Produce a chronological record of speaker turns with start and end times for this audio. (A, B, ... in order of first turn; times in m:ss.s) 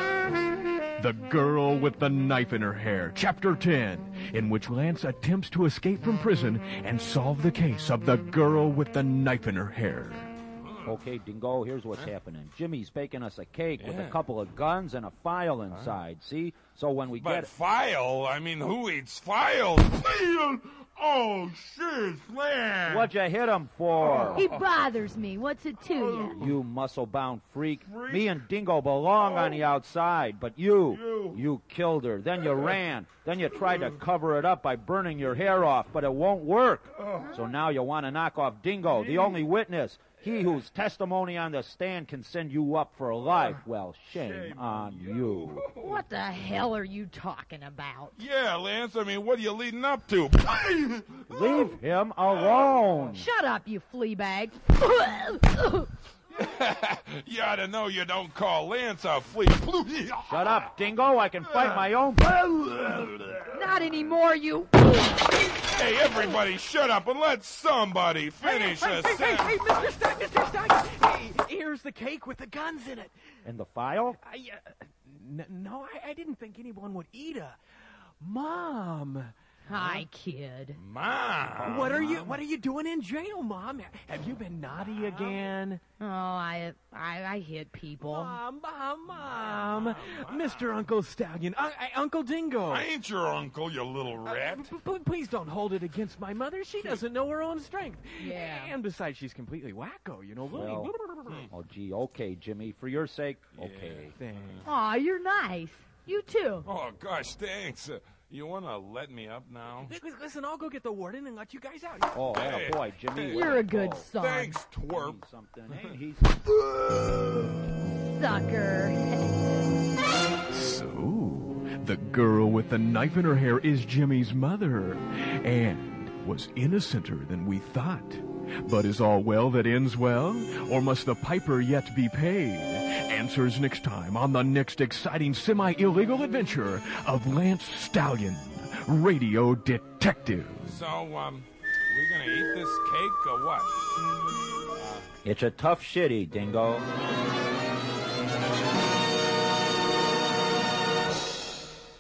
0:01.0-0:10.3 A
0:10.6-0:11.0 B
0:10.8-0:17.5 C
0:13.8-0:14.2 B
0:15.7-0:16.0 B
0:17.1-0:23.1 B
0:22.8-0:24.4 C
0:24.1-0:24.6 B
0:24.1-0:26.4 D
0:25.9-0:26.6 B
0:26.3-0:45.7 C
0:27.8-0:28.4 B
0:29.3-0:29.6 B
0:31.0-0:31.4 B
0:44.1-0:46.0 B
0:45.7-0:48.2 D
0:48.2-0:51.6 B
0:51.3-0:53.3 C
0:52.3-0:52.9 B
0:53.1-0:55.9 D
0:56.3-1:00.7 B
1:00.3-1:02.4 C
1:02.4-1:03.5 B
1:03.5-1:05.0 D
1:05.3-1:09.6 B
1:08.4-1:13.1 E
1:13.4-1:14.2 C
1:14.2-1:17.6 E
1:18.2-1:19.3 E
1:19.7-1:20.8 D
1:19.8-1:20.0 B
1:20.8-1:22.4 B
1:21.6-1:25.8 E
1:24.8-1:25.5 B
1:26.0-1:28.4 D
1:28.0-1:32.9 E
1:29.1-1:30.8 B
1:32.7-1:34.8 B
1:34.2-1:41.5 E
1:38.2-1:38.8 D
1:40.5-1:40.9 C
1:41.2-1:41.5 B
1:41.5-1:44.2 C
1:43.6-1:44.7 B
1:44.2-1:44.6 E
1:44.6-1:46.7 D
1:46.7-1:49.9 B
1:49.8-1:52.1 E
1:52.1-1:54.1 C
1:52.3-1:55.2 B
1:53.3-1:54.6 D
1:54.9-1:56.3 C
1:58.1-1:59.3 D
2:00.5-2:20.8 A
2:20.6-2:23.7 B
2:25.2-2:26.9 C